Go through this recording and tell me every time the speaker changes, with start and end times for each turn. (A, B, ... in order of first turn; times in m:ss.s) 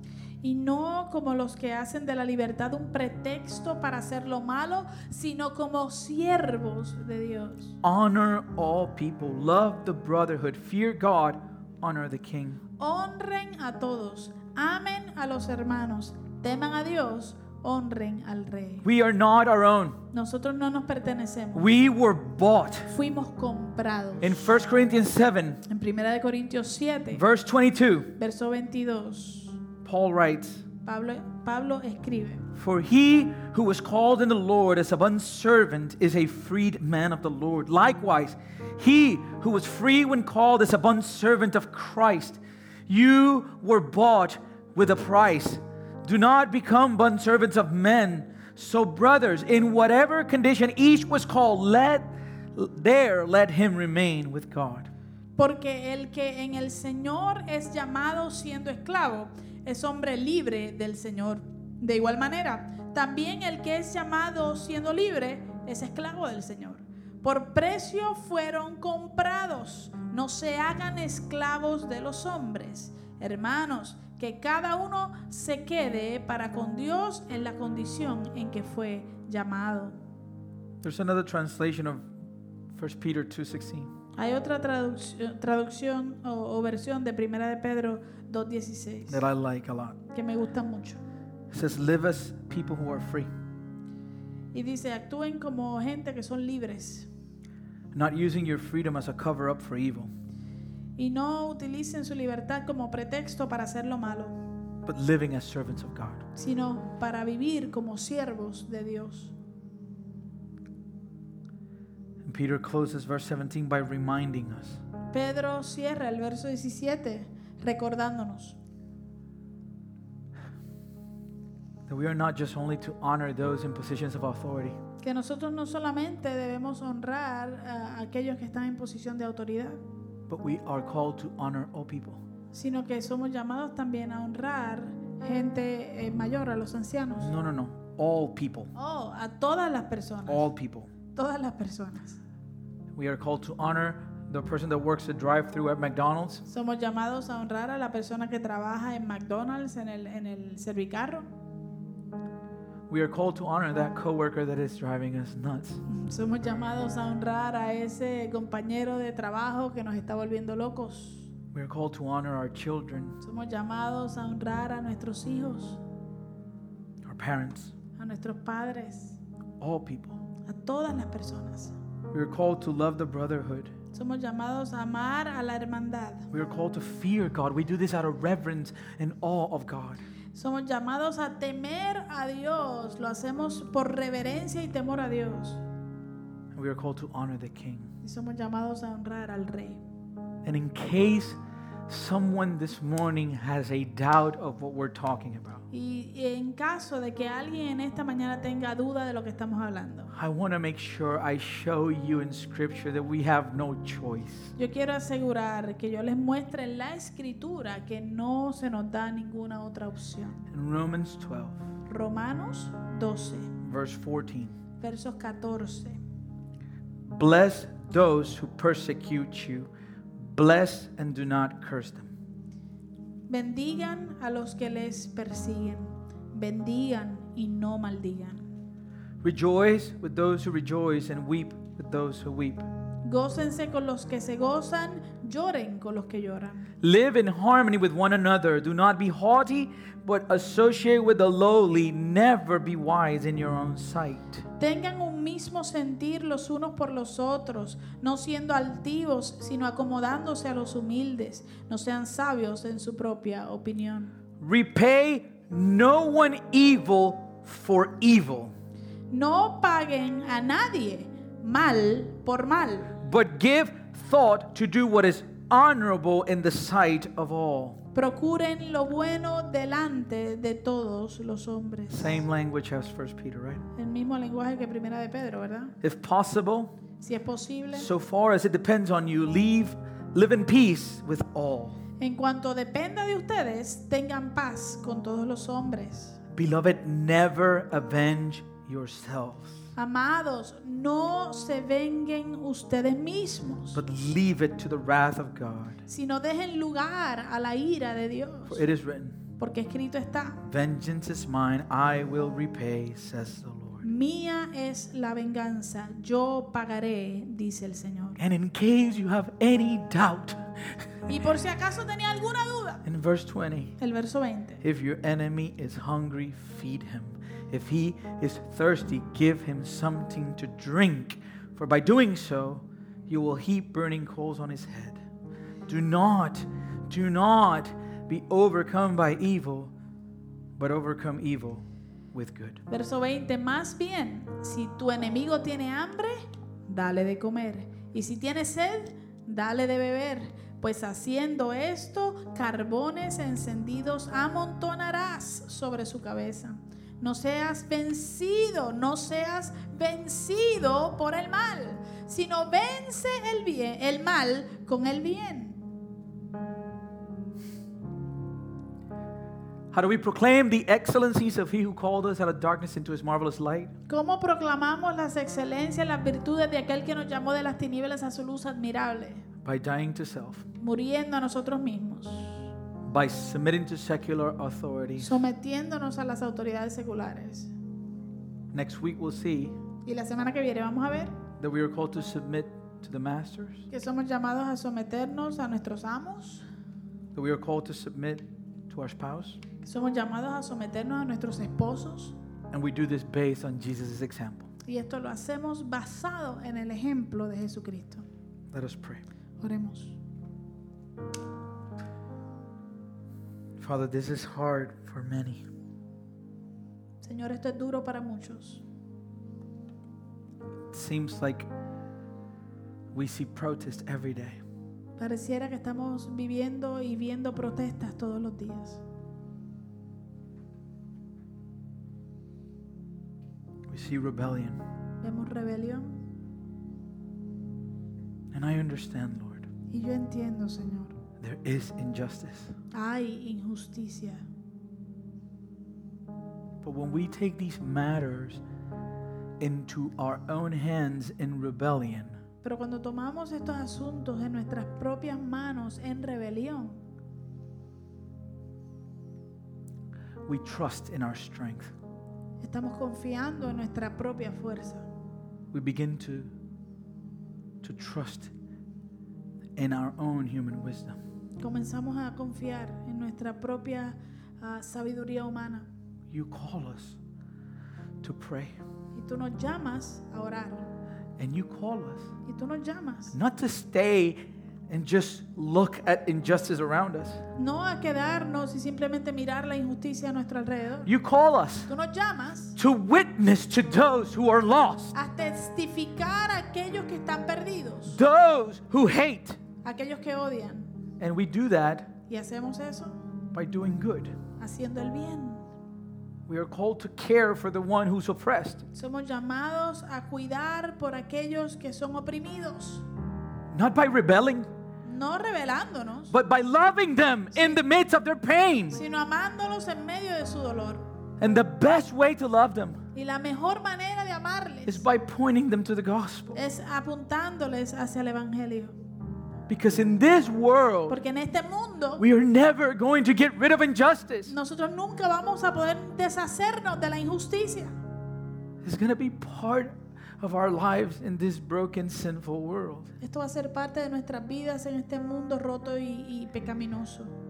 0:00.4-0:07.8 A
0:07.8-0:12.6 B
0:12.8-0:18.8 A
0:18.8-0:20.0 B
0:20.1-0:21.7 A
0:21.5-0:22.9 B
0:22.9-0:24.4 A
0:24.2-0:25.6 B
0:25.6-0:27.2 A
0:27.1-0:28.1 B
0:28.2-0:29.6 A
0:29.8-0:30.7 B
0:30.8-0:32.4 A
0:32.5-0:54.9 B
0:55.4-1:20.0 A
1:20.8-1:22.1 B
1:22.7-1:23.9 B
1:24.1-1:29.2 A
1:29.1-1:30.0 B
1:30.1-1:31.0 A
1:31.5-1:33.3 B
1:34.5-1:37.1 A
1:37.9-1:40.1 B
1:41.0-1:44.3 A
1:44.8-1:46.2 B
1:46.4-1:49.3 A
1:52.2-1:54.8 B
1:55.1-1:58.6 A
2:01.9-2:04.8 B
2:05.0-2:09.8 A
2:10.3-2:12.2 B
2:12.5-2:17.3 A
2:17.2-2:18.7 B
2:18.7-2:20.5 A
2:20.3-2:20.9 B
2:21.1-2:22.2 A
2:22.9-2:26.4 B
2:26.4-2:31.3 A
2:32.9-2:35.8 B
2:35.9-2:41.3 A
2:41.5-2:43.2 B
2:43.2-2:45.8 A
2:47.0-2:47.7 B
2:48.0-2:49.2 A
2:49.6-2:50.2 B
2:50.4-2:51.8 A
2:52.1-2:53.7 B
2:53.9-2:56.3 A
2:56.3-3:00.0 B
3:00.3-3:05.6 A
3:06.5-3:07.9 B
3:08.0-3:09.8 A
3:10.4-3:15.6 B
3:15.7-3:20.1 A
3:20.1-3:24.5 B
3:24.6-3:30.4 A
3:30.5-3:31.7 B
3:31.9-3:33.5 A
3:33.6-3:34.5 B
3:34.8-3:36.0 A
3:37.1-3:42.1 B
3:43.3-3:48.5 A
3:49.2-3:52.6 B
3:53.0-3:56.7 A
3:56.8-4:04.5 B
4:04.6-4:14.1 A
4:14.4-4:18.5 B
4:19.1-4:22.9 A
4:23.0-4:27.8 B
4:27.9-4:32.2 A
4:31.9-4:33.6 B
4:33.7-4:35.8 A
4:35.8-4:36.8 B
4:37.0-4:37.9 A
4:37.7-4:41.8 B
4:42.0-4:46.2 A
4:46.3-4:49.7 B
4:49.8-4:53.8 A
4:53.7-4:55.8 B
4:55.9-4:58.7 A
4:58.5-4:59.2 B
4:59.4-5:00.4 A
5:00.4-5:03.9 B
5:03.8-5:08.2 A
5:08.2-5:10.9 B
5:11.1-5:12.8 A
5:12.8-5:13.8 B
5:13.8-5:14.6 A
5:14.6-5:25.0 B
5:25.7-5:29.7 B
5:30.6-5:32.6 B
5:32.7-5:55.6 A
5:59.7-6:03.7 B
6:03.9-6:09.2 A
6:09.4-6:10.5 B
6:10.6-6:12.5 A
6:12.8-6:15.2 B
6:15.0-6:17.5 A
6:18.5-6:19.6 B
6:19.8-6:21.2 A
6:21.4-6:23.7 B
6:23.7-6:26.4 A
6:27.1-6:29.4 B
6:29.6-6:32.2 A
6:32.5-6:34.5 B
6:34.6-6:38.0 A
6:38.5-6:39.0 B
6:39.4-6:40.0 A
6:43.6-6:45.4 B
6:47.0-6:48.6 A
6:50.7-6:51.5 B
6:52.9-6:54.4 B
6:55.0-6:58.8 A
7:03.7-7:04.6 B
7:05.0-7:06.0 A
7:08.3-7:09.5 B
7:09.7-7:11.0 A
7:11.2-7:12.6 B
7:12.7-7:14.2 A
7:16.6-7:18.4 B
7:19.4-7:22.2 B
7:22.4-7:26.8 A
7:30.2-7:31.7 B
7:32.4-7:34.9 A
7:35.5-7:36.3 B
7:37.6-7:38.3 B
7:39.6-7:41.0 B
7:41.4-7:45.7 A
7:46.1-7:47.0 B
7:48.0-7:48.6 B
7:48.9-7:50.6 A
7:51.2-7:52.1 B
7:52.2-7:53.1 A
7:53.1-7:57.2 B
7:57.4-8:00.9 A
8:00.8-8:01.7 B
8:01.7-8:02.6 A
8:02.6-8:04.9 B
8:04.9-8:08.0 A
8:07.9-8:09.4 B
8:09.6-8:10.7 A
8:11.0-8:11.9 B
8:12.1-8:13.0 A
8:13.3-8:14.2 B
8:14.4-8:15.5 A
8:16.3-8:18.6 B
8:18.7-8:22.8 A
8:23.5-8:24.5 B
8:24.8-8:26.1 A
8:26.1-8:28.8 B
8:28.7-8:30.9 A
8:31.2-8:32.8 B
8:32.9-8:34.8 A
8:34.6-8:36.4 B
8:36.3-8:38.8 A
8:39.5-8:41.0 B
8:40.9-8:42.0 A
8:42.0-8:44.4 B
8:44.3-8:47.8 A
8:48.6-8:52.9 B
8:53.0-8:57.1 A